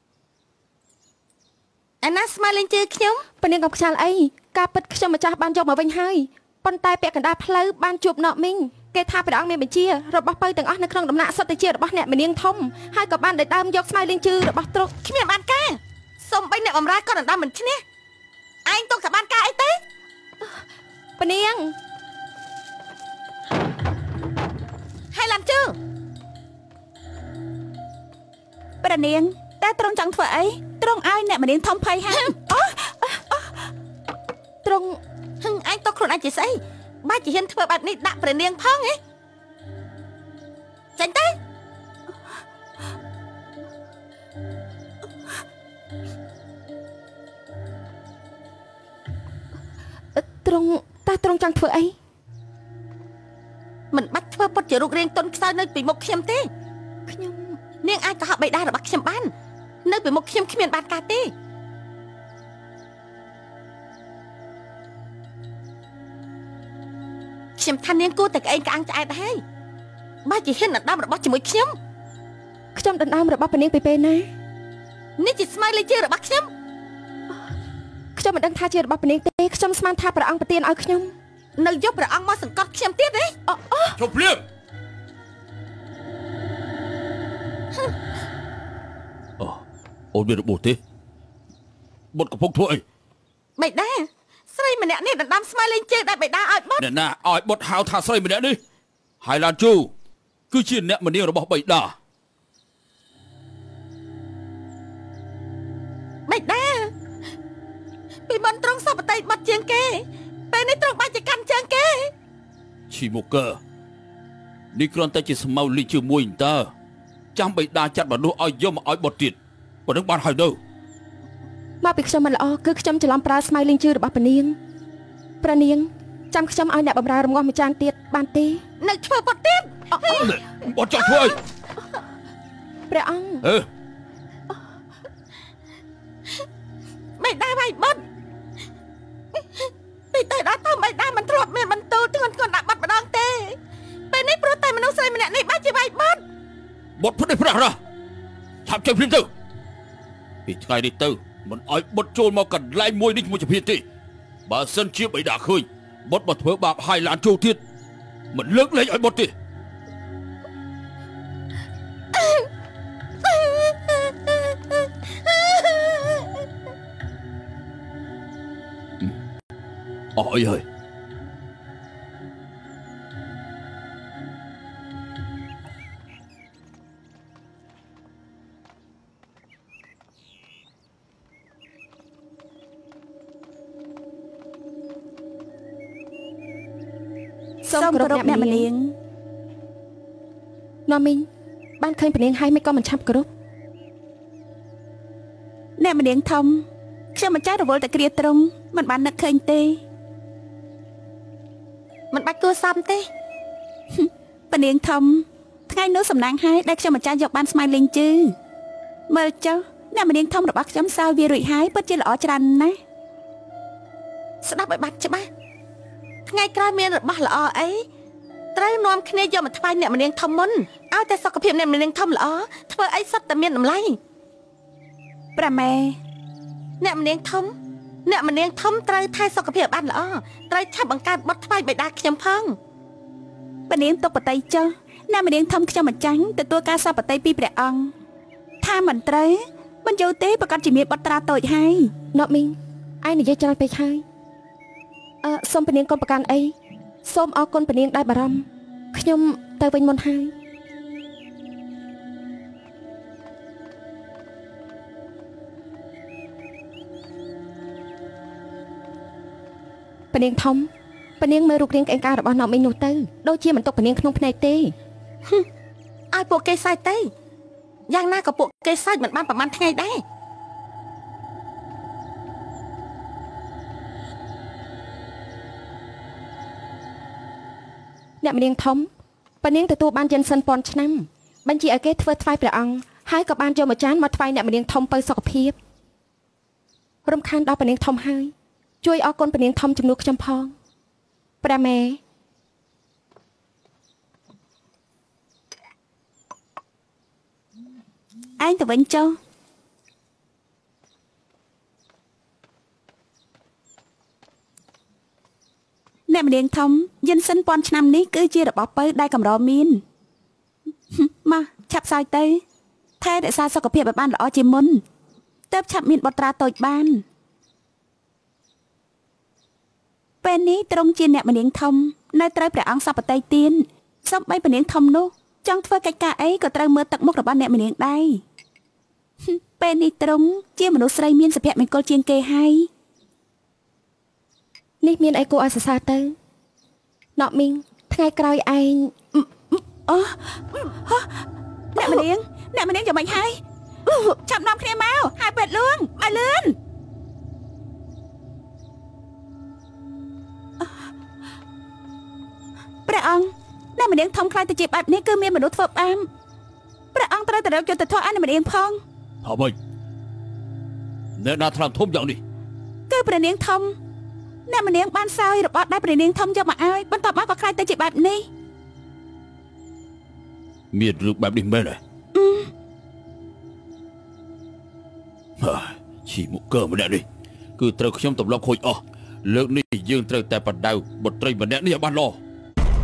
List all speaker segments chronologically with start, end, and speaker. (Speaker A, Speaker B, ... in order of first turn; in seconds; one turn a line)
Speaker A: 2.0-3.2
Speaker B: 3.4-14.9
Speaker A: 15.0-17.8
Speaker A: 18.6-19.8
Speaker B: 21.2-21.7
Speaker A: 25.1-25.8
Speaker C: 28.8-32.9
Speaker A: 32.1-32.4
Speaker B: 34.6-35.0
Speaker A: 35.4-39.0
Speaker A: 41.0-41.4
Speaker B: 50.1-52.0
Speaker A: 53.9-56.5
Speaker B: 57.1-57.6
Speaker A: 57.8-59.3
Speaker A: 59.9-61.3
Speaker A: 67.6-69.4
Speaker A: 70.2-71.7
Speaker B: 72.7-74.3
Speaker A: 75.2-76.5
Speaker B: 78.2-81.1
Speaker A: 81.6-83.3
Speaker B: 83.5-84.0
Speaker D: 84.0-84.4
Speaker D: 90.1-90.8
Speaker D: 92.1-92.8
Speaker A: 93.6-96.8
Speaker D: 96.8-98.6
Speaker D: 99.2-99.9
Speaker D: 100.5-101.9
Speaker A: 106.3-106.9
Speaker A: 108.3-112.1
Speaker D: 112.9-113.6
Speaker D: 114.7-116.7
Speaker D: 117.3-119.3
Speaker D: 119.9-120.6
Speaker B: 121.8-124.6
Speaker B: 125.4-128.6
Speaker A: 128.8-130.3
Speaker B: 129.9-130.3
Speaker D: 130.1-131.4
Speaker B: 132.9-133.4
Speaker A: 137.2-138.0
Speaker A: 139.4-143.6
Speaker A: 144.1-146.2
Speaker D: 147.0-147.8
Speaker D: 148.7-149.3
Speaker D: 150.5-153.8
Speaker D: 154.5-157.6
Speaker D: 158.3-159.3
Speaker A: 162.1-162.5
Speaker A: 163.3-164.3
Speaker A: 165.3-166.2
Speaker D: 170.2-170.6
Speaker C: 187.7-188.9
Speaker B: 187.7-188.7
Speaker B: 190.9-191.3
Speaker B: 191.8-193.3
Speaker C: 195.8-199.8
Speaker A: 202.1-203.1
Speaker C: 203.9-208.3
Speaker C: 209.1-212.8
Speaker A: 214.4-215.3
Speaker A: 216.3-217.8
Speaker A: 218.5-224.0
Speaker C: 225.3-226.0
Speaker A: 226.8-227.5
Speaker A: 228.1-232.6
Speaker C: 233.7-237.9
Speaker C: 238.6-241.9
Speaker B: 242.1-244.0
Speaker B: 245.2-250.3
Speaker B: 260.1-264.7
Speaker A: 266.1-267.1
Speaker A: 267.9-270.0
Speaker B: 278.2-278.9
Speaker B: 279.4-285.6
Speaker B: 287.1-290.5
Speaker B: 291.4-292.0
Speaker C: 298.4-299.2
Speaker C: 306.1-309.8
Speaker C: 310.9-312.4
Speaker C: 313.0-314.8
Speaker C: 315.5-317.0
Speaker C: 320.2-328.2
Speaker C: 329.2-332.7
Speaker B: 334.8-336.1
Speaker B: 337.2-338.9
Speaker C: 339.1-346.6
Speaker C: 352.9-356.1
Speaker C: 356.9-358.8
Speaker D: 359.2-359.5
Speaker D: 361.2-362.2
Speaker C: 362.9-363.8
Speaker C: 364.5-368.3
Speaker D: 370.7-371.8
Speaker C: 372.1-372.5
Speaker D: 375.4-377.0
Speaker D: 377.6-382.2